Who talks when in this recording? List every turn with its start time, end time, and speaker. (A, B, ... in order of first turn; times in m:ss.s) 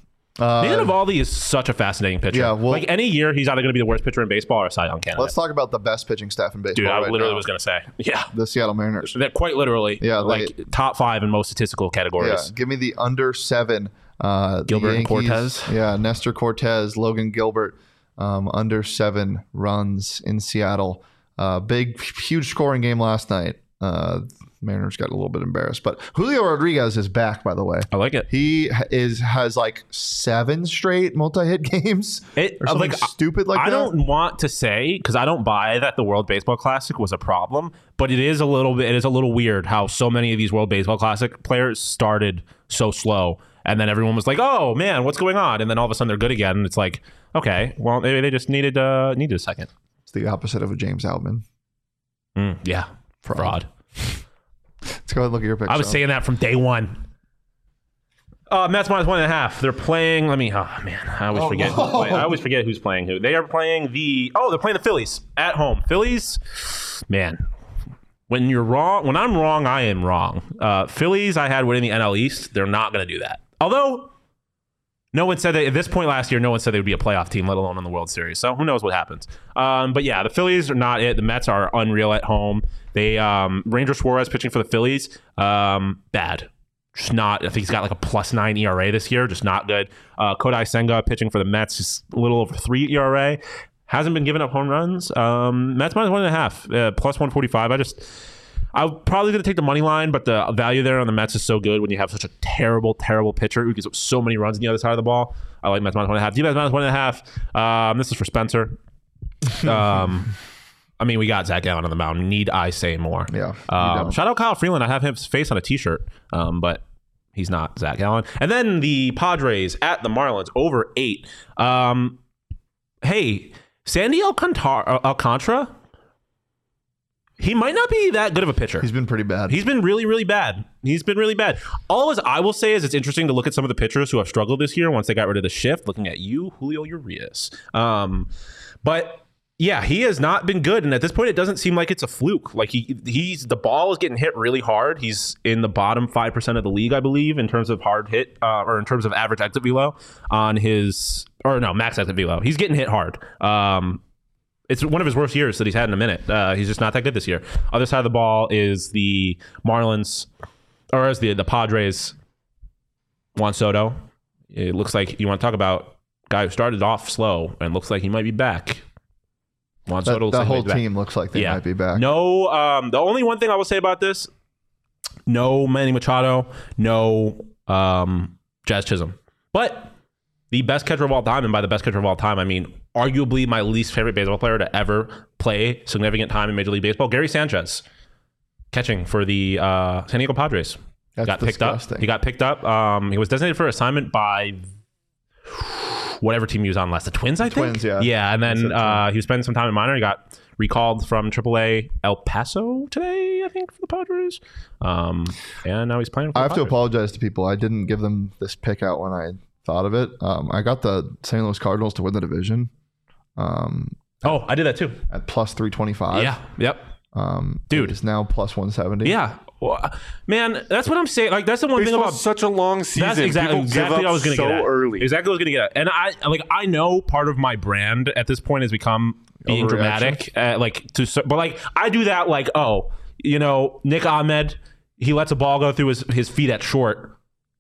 0:00.4-0:01.0 A
0:00.6-0:05.4 B
0:02.3-0:02.9 A
0:05.2-0:07.5 A
0:06.8-0:08.3 B
0:08.3-0:09.1 A
0:09.0-0:12.5 B
0:10.0-0:10.5 A
0:12.2-0:33.9 A
0:14.7-0:15.8 B
0:27.9-0:28.3 B
0:32.4-0:49.7 B
0:50.1-0:51.4 A
0:52.4-0:53.7 B
0:53.2-0:54.1 A
0:55.0-0:56.0 A
0:55.7-0:57.0 B
0:58.5-1:07.4 B
1:01.3-1:02.4 A
1:08.3-1:14.1 B
1:15.1-1:48.8 B
1:49.6-1:50.3 B
1:51.0-1:56.8 B
1:53.3-1:54.2 A
1:57.3-2:02.2 B
2:03.0-2:05.7 B
2:07.4-2:08.9 B
2:08.8-2:09.6 A
2:09.5-2:18.3 B
2:18.8-2:34.0 B
2:34.7-2:40.3 B
2:40.9-2:42.2 B
2:43.4-2:44.0 B
2:44.5-2:48.8 B
2:49.9-2:54.3 B
2:50.0-2:52.1 A
2:55.3-2:59.9 B
3:00.5-3:07.8 B
3:08.7-3:14.7 B
3:11.2-3:12.1 A
3:15.5-3:26.8 B
3:17.4-3:19.1 A
3:26.4-3:32.7 A
3:33.4-3:34.4 A
3:34.2-3:35.0 B
3:35.1-3:36.4 A
3:36.1-3:36.9 B
3:37.1-3:39.2 A
3:37.7-3:38.0 B
3:39.0-3:42.2 B
3:41.8-3:45.1 C
3:42.9-3:57.2 B
3:49.4-3:50.2 A